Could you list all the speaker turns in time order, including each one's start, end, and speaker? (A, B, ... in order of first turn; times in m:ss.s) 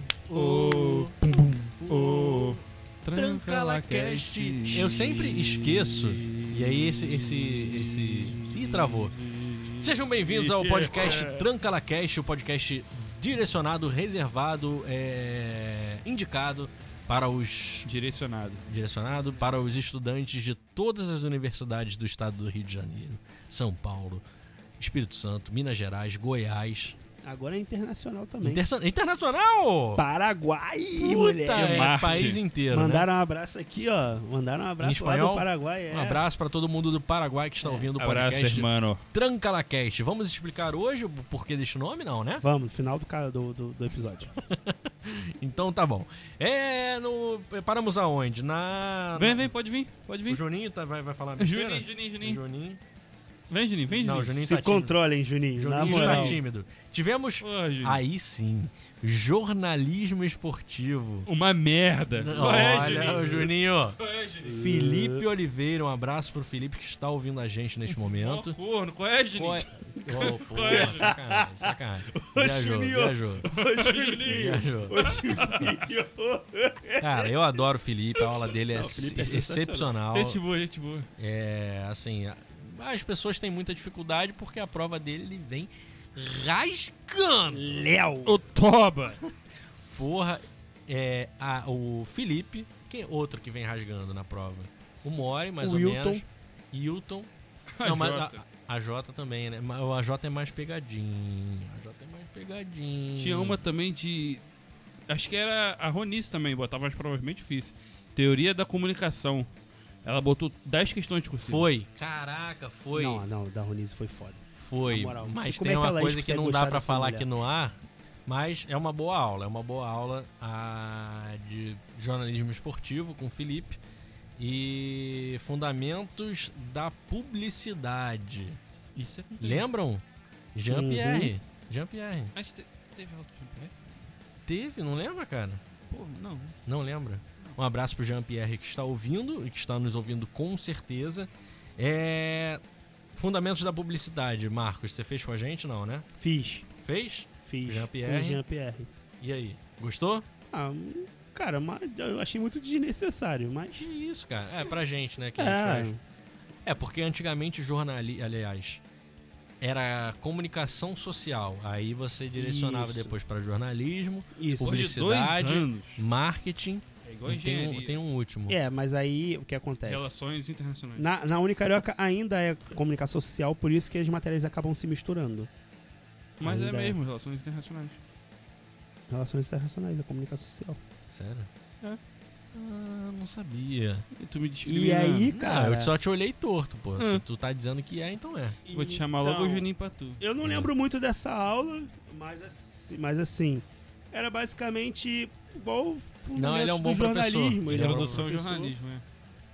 0:00.3-0:02.6 A
0:00.3-0:11.5 B
0:03.1-0:09.2 A
0:09.8-0:17.9 A
0:17.9-0:18.6 B
0:18.7-0:24.2 A
0:24.8-0:27.0 A
0:27.2-0:28.6 C
0:28.4-0:30.0 A
0:30.0-0:36.2 C
0:31.0-0:33.1 A
0:31.6-0:32.4 B
0:34.8-0:42.4 A
0:37.6-0:37.9 C
0:38.0-0:39.0 B
0:42.4-0:44.3 C
0:44.5-0:49.5 A
0:49.2-0:50.4 B
0:50.3-0:52.8 A
0:51.4-0:52.4 B
0:53.5-0:54.5 B
0:53.9-0:55.0 A
0:54.4-0:56.4 C
0:55.6-1:01.3 A
0:55.8-0:56.4 B
0:57.4-0:58.0 B
1:01.3-1:04.6 B
1:02.2-1:04.0 A
1:04.4-1:05.3 C
1:04.5-1:08.6 A
1:08.0-1:11.1 B
1:09.4-1:13.5 A
1:10.2-1:17.3 C
1:13.5-1:15.8 B
1:14.2-1:15.0 A
1:17.0-1:20.4 A
1:18.2-1:19.9 C
1:20.1-1:21.1 B
1:21.2-1:27.8 A
1:27.5-1:28.4 C
1:28.2-1:29.2 B
1:29.9-1:37.3 A
1:35.6-1:36.2 C
1:37.8-1:38.4 B
1:37.8-1:43.6 A
1:43.2-1:44.4 B
1:45.1-1:49.5 B
1:50.0-1:51.7 B
1:51.4-1:53.2 A
1:52.9-1:57.3 C
1:54.6-2:03.8 A
2:04.4-2:08.6 A
2:09.0-2:09.7 B
2:09.4-2:10.0 A
2:10.6-2:12.3 A
2:10.7-2:11.3 C
2:12.4-2:13.8 B
2:14.5-2:15.6 A
2:15.9-2:16.6 B
2:16.7-2:22.6 A
2:23.1-2:26.1 A
2:26.2-2:26.7 C
2:26.8-2:28.4 A
2:27.5-2:28.9 C
2:29.2-2:30.3 A
2:30.5-2:33.9 C
2:33.8-2:35.9 A
2:35.4-2:36.0 C
2:36.6-2:38.8 A
2:39.6-2:48.6 A
2:42.4-2:43.2 C
2:44.4-2:44.8 C
2:44.6-2:46.0 B
2:47.0-2:48.0 B
2:48.5-2:50.2 C
2:49.8-2:51.1 B
2:51.0-2:55.5 C
2:56.4-2:58.0 B
2:56.4-2:57.0 C
2:59.1-3:00.8 C
3:01.1-3:01.5 A
3:02.5-3:04.1 A
3:04.1-3:05.3 B
3:04.6-3:06.0 C
3:05.3-3:08.6 A
3:07.0-3:07.2 B
3:08.7-3:09.7 C
3:08.7-3:10.2 B
3:10.2-3:18.8 C
3:10.4-3:10.7 A
3:16.4-3:18.4 A
3:17.7-3:19.0 B